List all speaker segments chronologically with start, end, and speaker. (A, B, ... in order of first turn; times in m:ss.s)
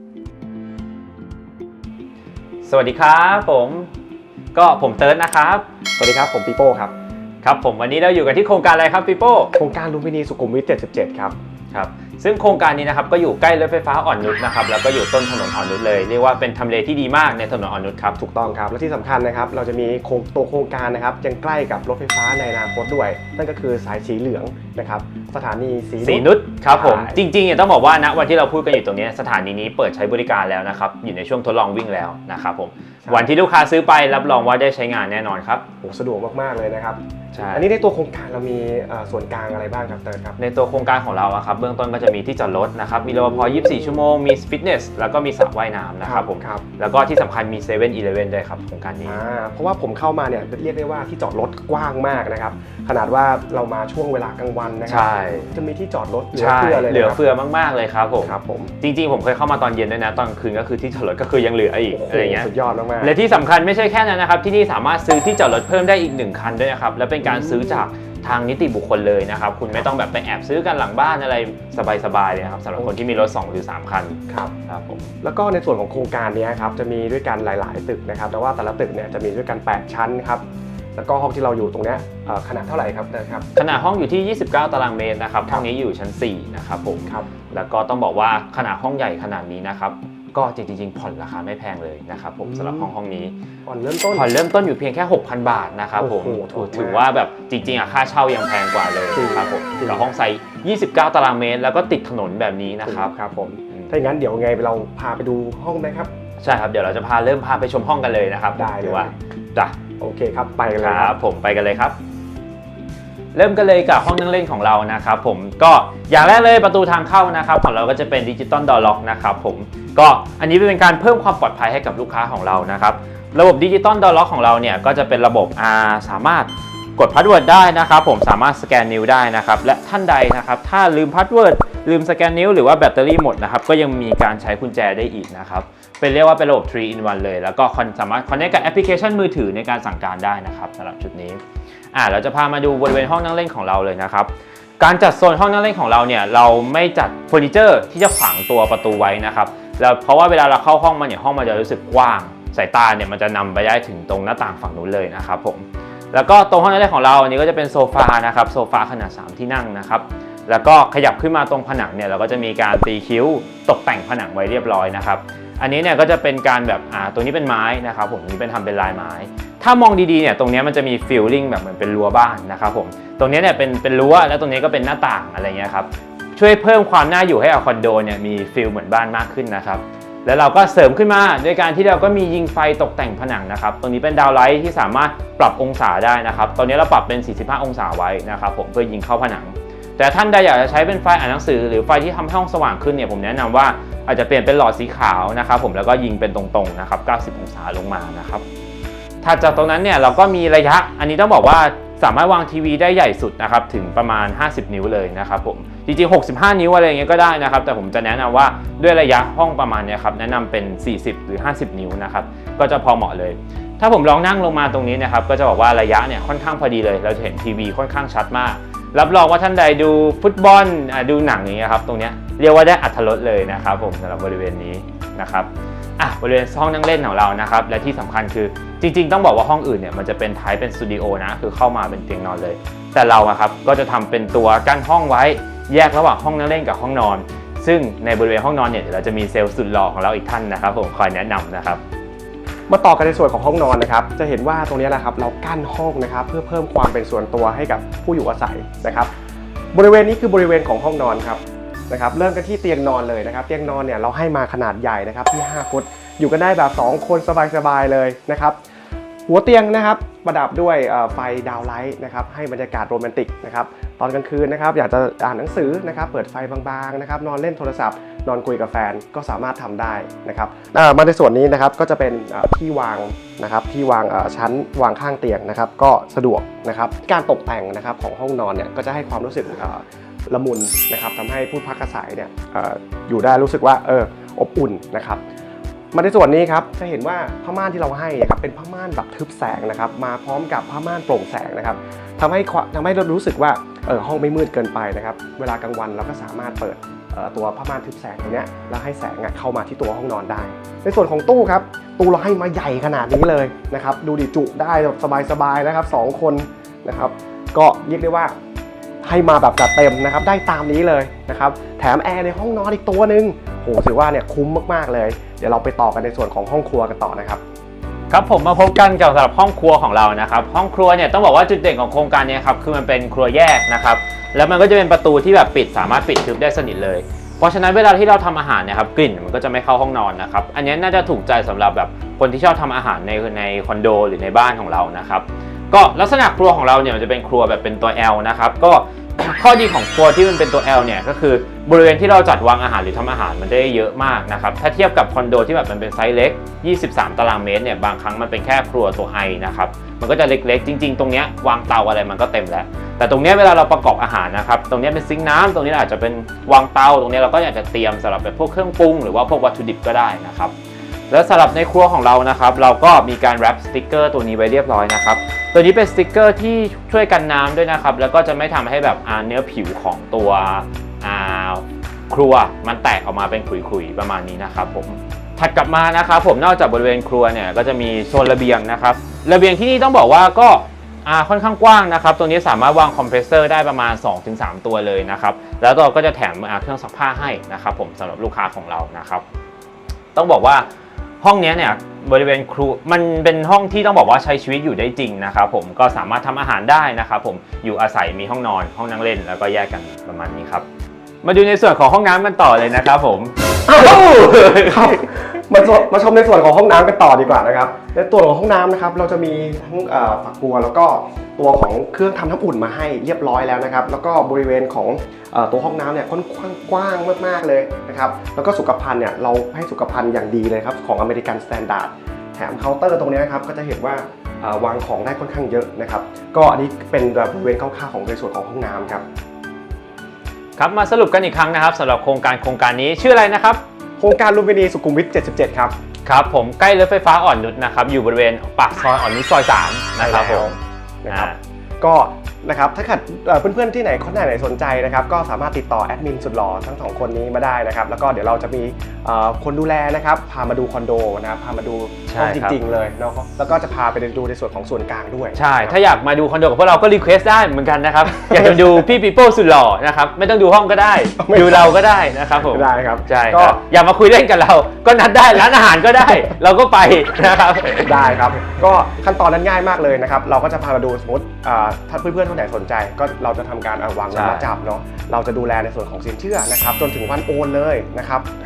0:02.6-0:03.9 A
0:04.5-0:05.7 A
0:06.0-0:06.9 B
0:07.4-0:09.6 A
0:09.6-0:11.4 B
0:11.7-0:18.2 A
0:18.2-0:27.2 B
0:26.0-0:35.7 A
0:33.0-0:33.3 B
0:35.8-0:37.0 B
0:37.3-0:37.7 A
0:37.5-0:40.4 B
0:40.4-0:49.2 A
0:46.0-0:46.6 B
0:49.1-0:57.2 B
0:54.9-0:55.5 A
0:56.4-1:15.1 A
0:58.2-0:58.7 B
1:01.9-1:03.1 B
1:07.2-1:07.8 B
1:15.2-1:20.4 B
1:21.0-1:23.5 B
1:23.6-1:33.4 A
1:32.5-1:32.9 B
1:33.7-1:34.3 B
1:34.1-1:43.1 A
1:36.0-1:37.0 B
1:39.1-1:40.1 B
1:42.8-1:46.1 B
1:46.4-1:49.8 A
1:48.6-1:49.2 B
1:50.0-1:51.2 B
1:50.8-1:52.0 A
1:53.3-2:21.4 A
2:21.9-3:18.4 A
3:19.2-4:01.8 A
4:02.7-4:09.1 B
4:09.7-4:18.6 B
4:19.3-4:45.2 B
4:45.9-5:08.3 B
5:09.0-5:17.4 B
5:18.1-6:00.5 A
6:01.1-6:29.2 A
6:30.2-6:30.7 A
6:31.2-6:40.7 A
6:41.2-6:45.0 A
6:43.8-7:09.0 B
7:10.6-7:13.6 A
7:14.0-7:15.8 B
7:16.1-7:20.6 A
7:20.0-7:35.8 B
7:21.1-7:21.4 A
7:32.1-7:32.6 A
7:35.4-7:48.1 A
7:41.2-7:41.8 B
7:42.5-7:43.6 B
7:47.8-7:58.3 B
7:54.1-7:54.5 A